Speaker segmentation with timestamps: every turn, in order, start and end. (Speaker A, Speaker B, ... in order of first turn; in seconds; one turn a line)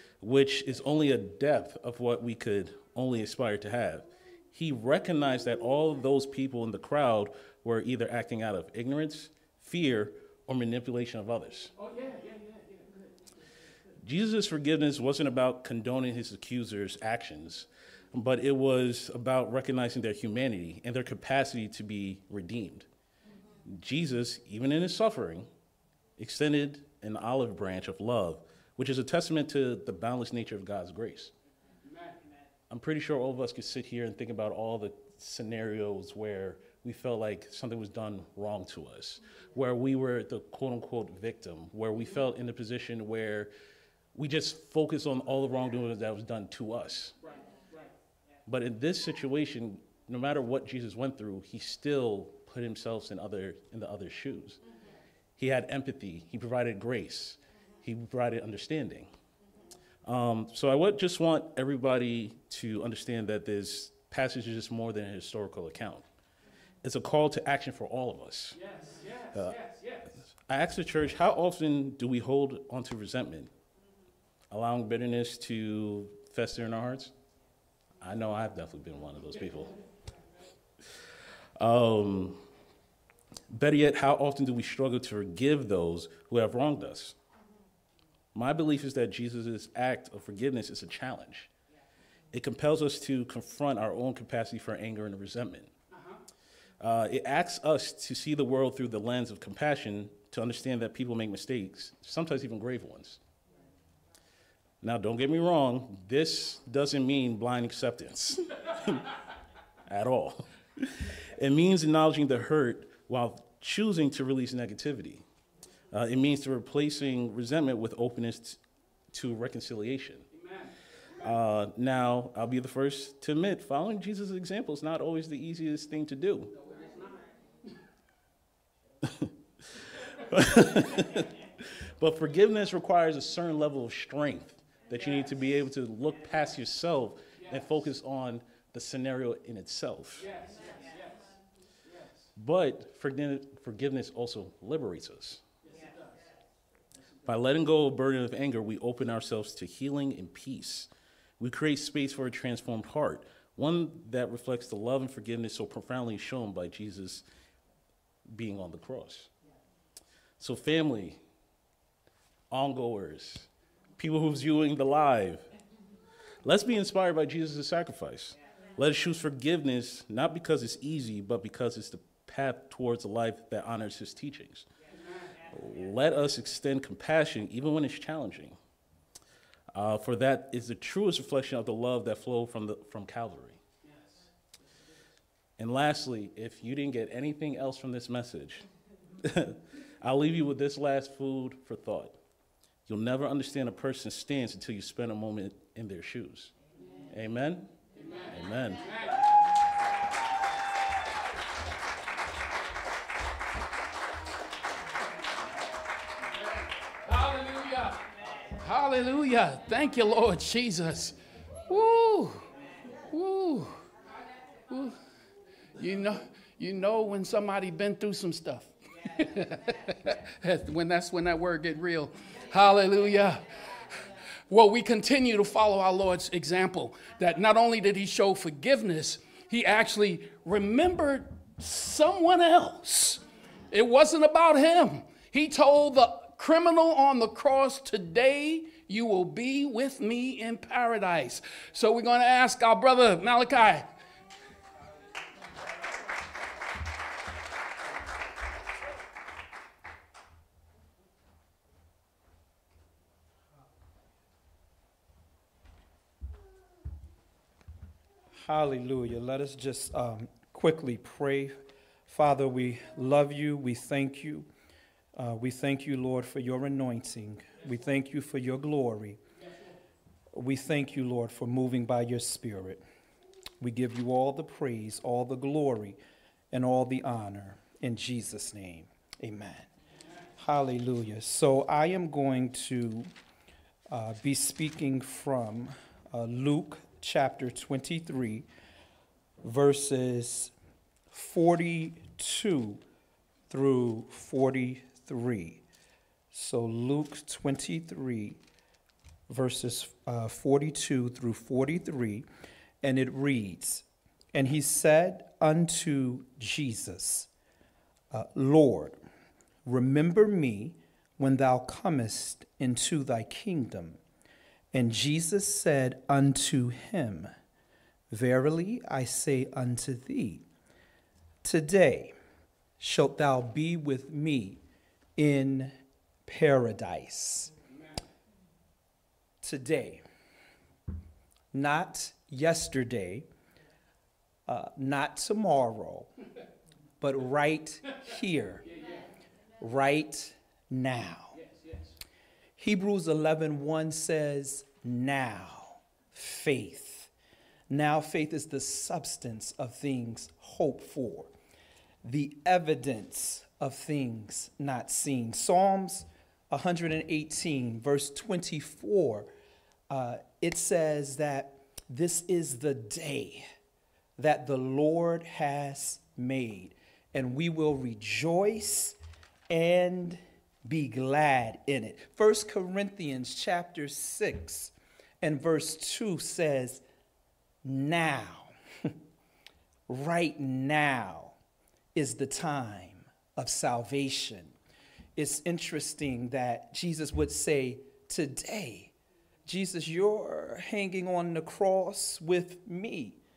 Speaker A: 0.2-11.7
Speaker B: 11.8-13.1
Speaker A: 14.0-22.9
Speaker A: 23.7-25.5
Speaker A: 26.2-31.3
Speaker B: 31.9-32.1
Speaker A: 32.7-43.5
Speaker A: 44.1-47.1
Speaker A: 48.5-54.6
Speaker A: 55.4-59.1
Speaker A: 60.0-66.0
Speaker A: 66.8-68.6
Speaker B: 68.6-70.0
Speaker A: 70.3-73.5
Speaker A: 74.5-77.1
Speaker A: 78.0-79.8
Speaker A: 81.6-82.4
Speaker A: 83.5-87.2
Speaker A: 88.3-91.5
Speaker A: 92.3-95.7
Speaker A: 96.8-103.2
Speaker A: 104.8-109.1
Speaker A: 109.9-115.2
Speaker A: 115.9-118.6
Speaker A: 119.1-120.3
Speaker B: 120.3-120.7
Speaker A: 121.2-126.5
Speaker B: 126.6-127.2
Speaker A: 130.3-131.3
Speaker A: 132.0-140.3
Speaker B: 140.2-140.7
Speaker A: 142.4-145.4
Speaker B: 145.7-145.9
Speaker A: 147.2-150.9
Speaker A: 151.4-157.2
Speaker A: 158.3-159.3
Speaker A: 160.4-161.2
Speaker A: 162.5-163.5
Speaker A: 164.0-165.4
Speaker A: 166.4-174.7
Speaker A: 175.5-178.6
Speaker A: 179.7-183.6
Speaker A: 185.6-188.7
Speaker A: 189.2-192.2
Speaker A: 192.9-196.5
Speaker A: 197.1-197.7
Speaker B: 198.0-199.1
Speaker A: 198.3-198.8
Speaker B: 207.1-208.0
Speaker B: 208.6-211.2
Speaker B: 211.7-212.4
Speaker B: 213.1-213.8
Speaker B: 214.7-215.0
Speaker B: 215.8-223.4
Speaker B: 224.5-243.9
Speaker C: 258.4-264.5
Speaker C: 265.1-269.2
Speaker C: 270.3-272.8
Speaker C: 273.6-276.0
Speaker C: 276.5-279.7
Speaker C: 280.4-283.1
Speaker C: 283.9-288.5
Speaker C: 289.4-290.5
Speaker C: 291.1-292.8
Speaker C: 293.5-295.6
Speaker C: 296.3-298.4
Speaker C: 299.3-302.2
Speaker C: 302.8-307.3
Speaker C: 308.1-309.0
Speaker C: 309.7-314.0
Speaker C: 314.7-317.3
Speaker C: 318.1-320.4
Speaker C: 321.4-322.1
Speaker C: 322.8-324.6
Speaker C: 325.2-325.7
Speaker C: 326.3-327.5
Speaker C: 329.4-330.0
Speaker C: 331.5-333.3
Speaker C: 334.5-336.1
Speaker C: 337.0-338.6
Speaker C: 339.6-341.4
Speaker B: 341.5-341.9
Speaker C: 342.6-347.1
Speaker C: 347.7-351.3
Speaker C: 352.0-359.3
Speaker C: 359.9-363.5
Speaker C: 364.2-369.0
Speaker C: 369.5-376.8
Speaker C: 377.6-378.5
Speaker C: 379.9-381.4
Speaker C: 381.9-384.5
Speaker C: 385.2-388.9
Speaker C: 389.5-393.2